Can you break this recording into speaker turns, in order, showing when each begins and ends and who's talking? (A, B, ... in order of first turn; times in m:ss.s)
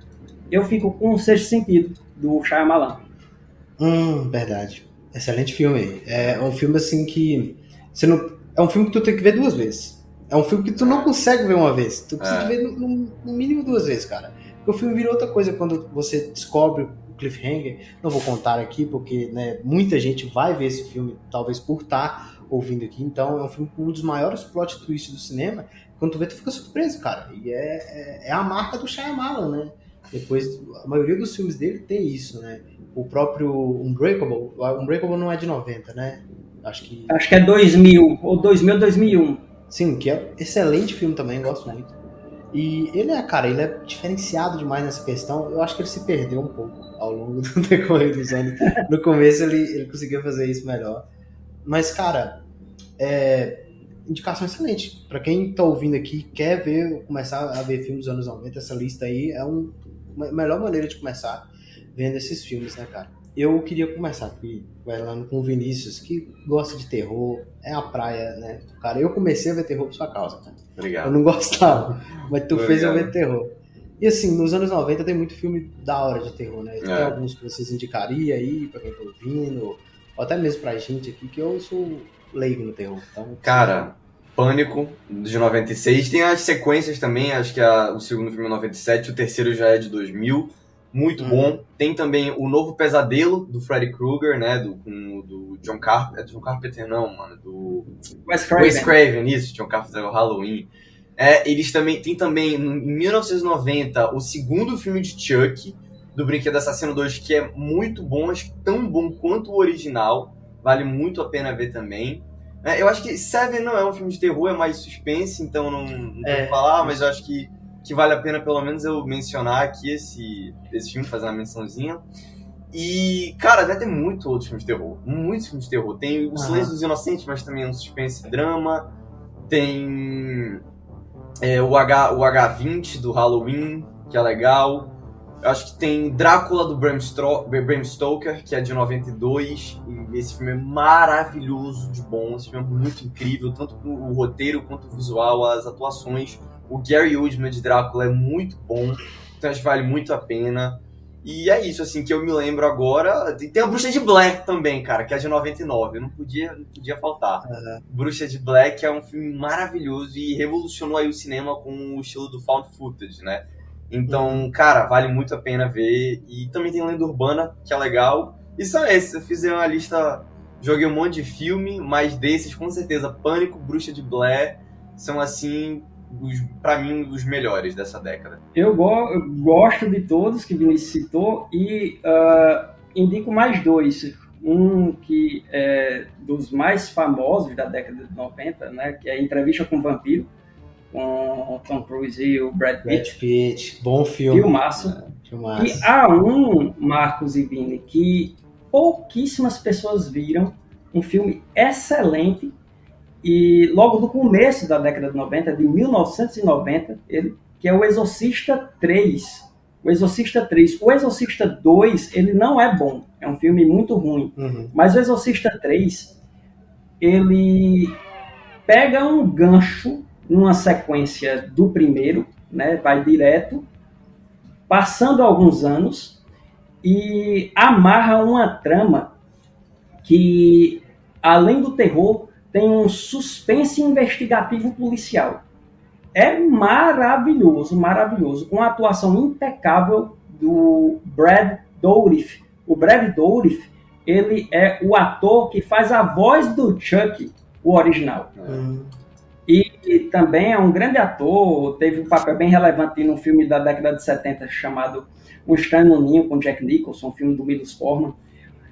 0:00.5-0:03.0 A
0:03.8-0:37.2 B
0:10.8-0:11.1 C
0:12.2-0:12.6 C
0:37.1-0:39.4 A
0:39.7-0:41.9 B
0:42.5-0:51.0 B
0:51.6-0:52.4 B
0:53.0-1:23.9 B
1:10.8-1:11.2 C
1:12.5-1:13.1 C
1:16.8-1:17.2 C
1:23.4-1:37.9 C
1:31.2-1:31.5 B
1:38.2-1:38.9 A
1:38.6-2:02.0 C
1:56.2-1:57.1 B
2:02.7-2:08.9 C
2:06.3-2:06.7 B
2:09.5-2:10.6 C
2:11.4-2:58.4 C
2:37.4-2:37.8 B
2:44.1-2:44.5 B
2:58.5-3:10.3 A
3:10.9-3:13.2 A
3:12.8-3:14.5 B
3:14.3-3:15.0 A
3:14.8-3:15.1 C
3:15.2-3:15.9 B
3:15.6-3:22.5 A
3:23.2-3:36.1 A
3:34.4-3:34.7 B
3:37.0-3:38.0 A
3:38.7-3:43.6 A
3:44.7-3:46.2 A
3:46.8-3:49.1 A
3:50.0-3:55.4 A
3:56.1-4:08.3 A
4:08.5-4:08.9 B
4:09.5-4:18.2 A